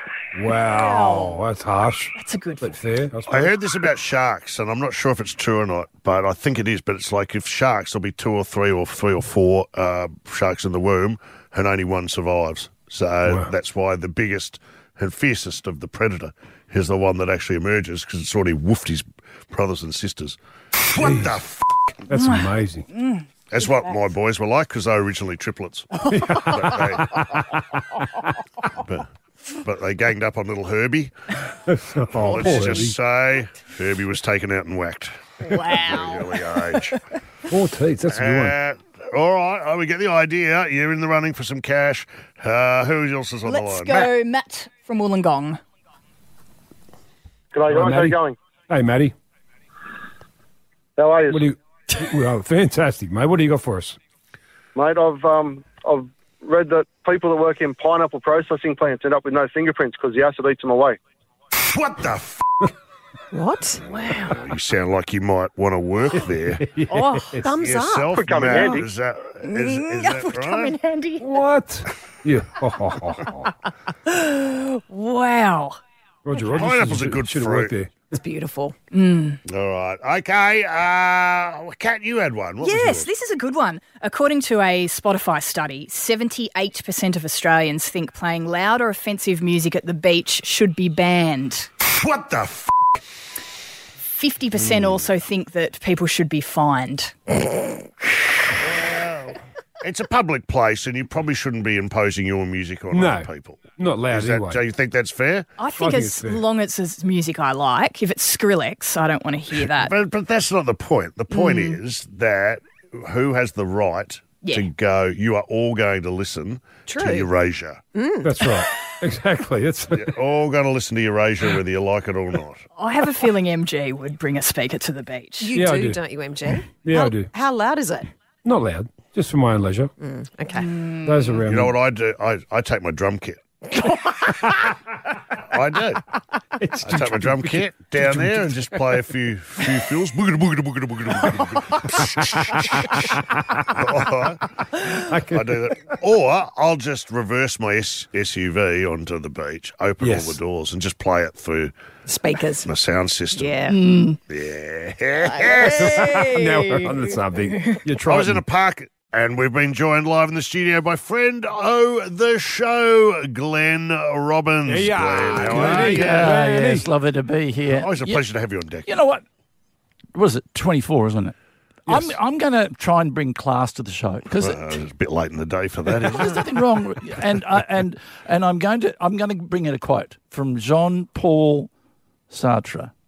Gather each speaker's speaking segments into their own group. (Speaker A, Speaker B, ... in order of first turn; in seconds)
Speaker A: 0.3-3.5, 13.3-13.5, 21.0-21.4, 22.1-22.9, 26.1-27.6, 31.7-33.0, 37.5-38.6, 47.7-48.2, 48.7-49.1, 51.3-54.0, 66.5-67.5, 71.2-73.5, 76.2-77.9, 102.9-104.6, 105.8-106.4, 118.2-120.2, 125.5-127.3, 128.4-129.9, 131.0-131.8, 136.6-138.7, 144.8-145.7, 150.0-150.4, 155.6-158.4, 164.7-166.9, 171.9-172.2
Speaker B: 0.7-1.4, 2.2-2.8, 22.1-23.2, 35.5-36.3, 43.5-45.6, 64.1-64.3, 66.9-67.3, 69.5-71.2, 74.1-75.8, 78.9-79.4, 82.6-91.7, 94.1-97.2, 105.6-109.9, 111.3-111.8, 114.4-114.7, 122.8-125.5, 130.6-131.3, 153.7-154.2, 155.6-156.9
Speaker C: 3.3-21.6, 23.5-27.2, 28.8-29.1, 29.6-31.1, 32.2-37.0, 38.1-44.1, 61.5-62.7, 64.3-66.7, 67.6-70.8, 76.5-77.7, 79.5-83.1, 91.8-92.7, 94.6-95.0, 98.6-105.5, 109.7-117.8, 120.0-122.6, 131.5-133.4, 135.5-136.0, 136.8-144.4, 145.3-151.7, 152.7-153.5, 154.3-156.2, 158.0-166.5, 167.7-168.9, 174.3-176.7
Speaker D: 47.5-48.4, 51.0-51.5, 54.8-61.0, 68.1-68.9
Speaker E: 63.3-63.9, 67.4-68.8, 78.1-78.8, 116.9-117.3, 117.9-118.5, 125.4-128.1, 130.0-130.7, 152.1-152.7, 153.3-153.8
Speaker F: 165.5-168.2, 168.9-169.2, 170.2-171.3, 171.9-174.8, 176.0-181.7, 182.3-182.9